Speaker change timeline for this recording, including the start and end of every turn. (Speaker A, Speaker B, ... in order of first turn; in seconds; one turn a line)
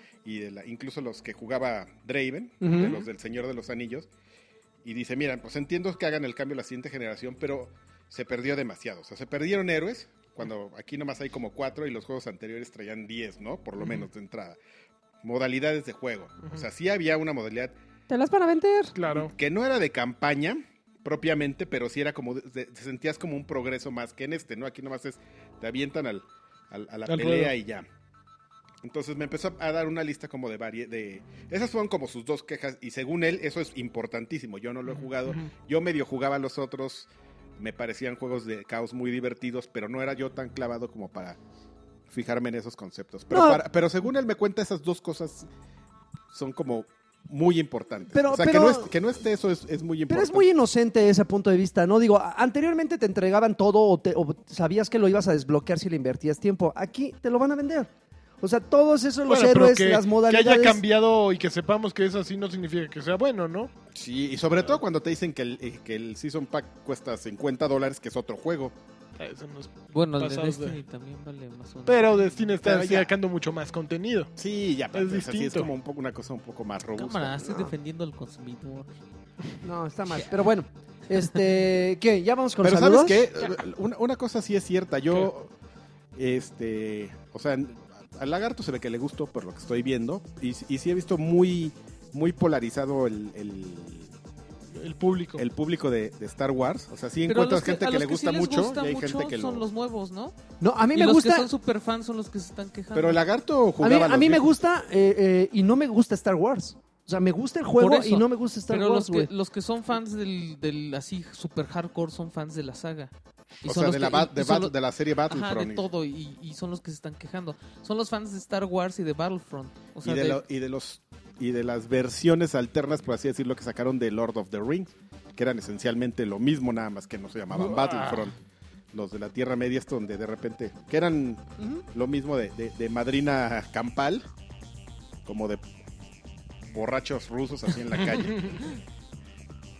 Speaker A: 0.2-4.1
Speaker B: 2.6-3.0
Speaker C: 2.7-3.0
Speaker A: 4.8-14.6
Speaker C: 13.8-14.1
Speaker A: 15.2-17.7
Speaker B: 18.1-18.9
Speaker C: 18.9-19.3
Speaker A: 19.1-27.9
Speaker C: 27.1-27.5
Speaker A: 28.8-41.4
Speaker C: 34.9-35.5
Speaker A: 42.1-45.5
Speaker B: 43.3-43.6
Speaker A: 46.3-50.4
Speaker B: 48.1-48.9
Speaker B: 50.1-57.9
Speaker B: 58.4-60.8
Speaker C: 59.3-63.7
Speaker A: 63.9-68.7
Speaker C: 69.2-70.8
Speaker D: 69.9-72.5
Speaker C: 71.8-74.3
Speaker A: 72.6-73.1
Speaker A: 74.4-77.4
Speaker C: 74.9-75.7
Speaker D: 76.9-78.9
Speaker B: 77.4-77.7
Speaker B: 79.6-83.3
Speaker A: 82.6-85.5
Speaker A: 86.2-94.1
Speaker C: 94.8-95.4
Speaker A: 95.4-99.7
Speaker D: 97.2-100.3
Speaker B: 100.6-101.5
Speaker D: 100.9-103.2
Speaker A: 102.9-104.5
Speaker B: 103.8-109.3
Speaker D: 107.8-113.1
Speaker D: 113.6-114.7
Speaker A: 113.6-115.9
Speaker D: 115.3-120.4
Speaker A: 120.0-128.3
Speaker C: 127.5-128.2
Speaker A: 128.9-134.3
Speaker B: 131.6-131.8
Speaker A: 135.2-135.6
Speaker A: 136.7-138.7